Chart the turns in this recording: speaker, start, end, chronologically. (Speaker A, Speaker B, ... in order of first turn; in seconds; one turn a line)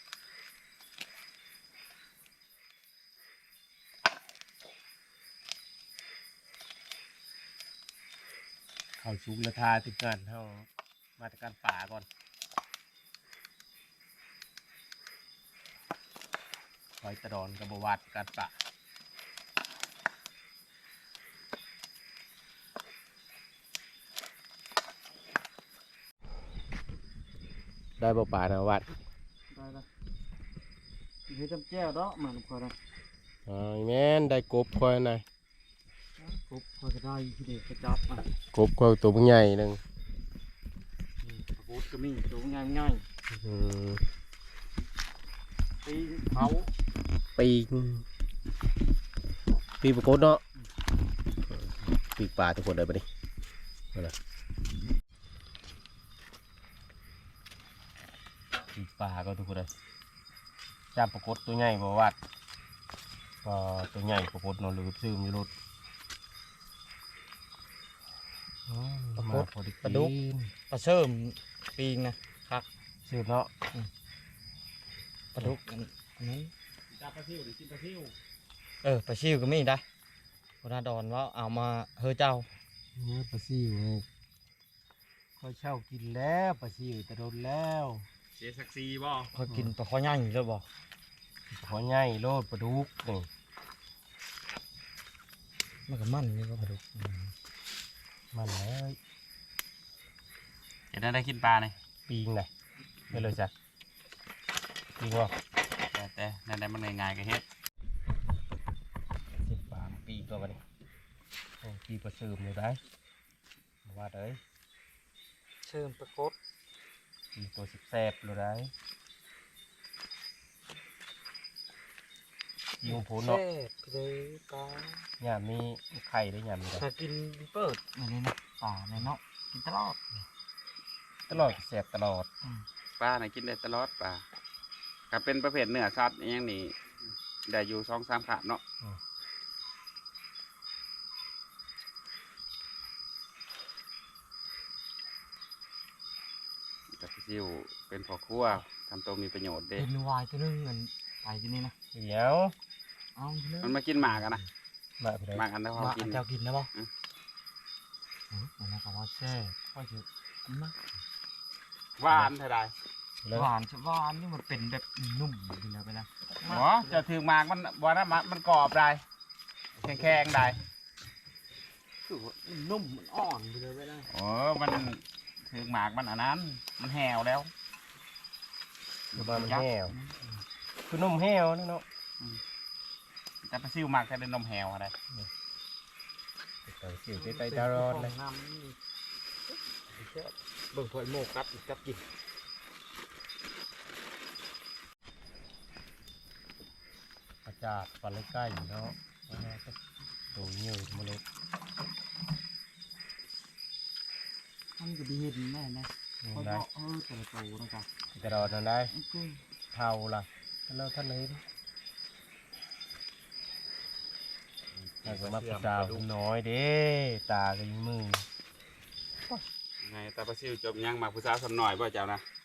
Speaker A: 9.0-12.1
Speaker A: 17.0-18.5
Speaker A: 28.0-28.9
Speaker B: 29.5-29.9
Speaker B: 31.3-32.7
Speaker A: 33.5-35.2
Speaker B: 36.2-38.3
Speaker A: 38.5-39.8
Speaker B: 41.2-43.0
Speaker A: 43.3-44.0
Speaker B: 45.8-46.7
Speaker A: 47.4-48.0
Speaker A: 49.8-50.4
Speaker A: 51.6-53.0
Speaker A: 58.7-59.7
Speaker A: 60.9-62.2
Speaker A: 63.4-65.5
Speaker A: 68.7-70.5
Speaker B: 69.2-70.1
Speaker B: 70.7-72.7
Speaker A: 73.0-73.5
Speaker B: 75.3-76.5
Speaker C: 76.9-78.1
Speaker B: 78.8-79.8
Speaker B: 80.6-82.5
Speaker A: 83.0-84.0
Speaker A: 85.4-88.1
Speaker C: 88.4-89.3
Speaker B: 89.3-90.7
Speaker A: 91.5-93.3
Speaker B: 95.9-97.3
Speaker A: 98.3-99.0
Speaker C: 100.9-101.8
Speaker A: 102.1-102.5
Speaker A: 103.1-103.5
Speaker A: 105.0-105.3
Speaker C: 105.9-107.4
Speaker A: 109.4-110.6
Speaker A: 111.6-112.8
Speaker A: 113.8-114.4
Speaker B: 115.6-116.3
Speaker A: 117.3-118.7
Speaker A: 122.8-123.4
Speaker B: 122.8-125.0
Speaker A: 125.2-126.8
Speaker B: 126.8-130.0
Speaker A: 131.3-132.3
Speaker C: 133.0-134.2
Speaker C: 135.1-136.8
Speaker C: 137.5-138.6
Speaker C: 146.9-149.9
Speaker B: 149.8-151.7
Speaker A: 151.9-152.5
Speaker B: 153.2-154.4
Speaker C: 153.6-154.4
Speaker A: 155.0-155.4
Speaker C: 155.3-156.9
Speaker B: 155.7-156.7
Speaker B: 158.3-160.8
Speaker C: 162.0-162.7
Speaker A: 163.2-163.5
Speaker B: 163.3-167.0
Speaker C: 166.4-169.0
Speaker C: 169.8-170.6
Speaker B: 169.8-170.1
Speaker B: 172.0-174.1
Speaker C: 174.1-177.5
Speaker C: 179.1-179.8
Speaker A: 179.1-179.9
Speaker B: 179.9-180.4
Speaker A: 180.9-181.8
Speaker C: 183.4-184.9
Speaker A: 186.6-188.1
Speaker B: 187.2-188.8
Speaker B: 189.9-192.0
Speaker A: 197.4-199.8
Speaker A: 200.3-201.2
Speaker B: 204.8-207.9
Speaker A: 206.2-206.6
Speaker A: 208.1-208.9
Speaker B: 208.9-209.4
Speaker A: 209.7-211.4
Speaker C: 214.8-216.1
Speaker A: 215.0-218.2
Speaker C: 219.8-222.2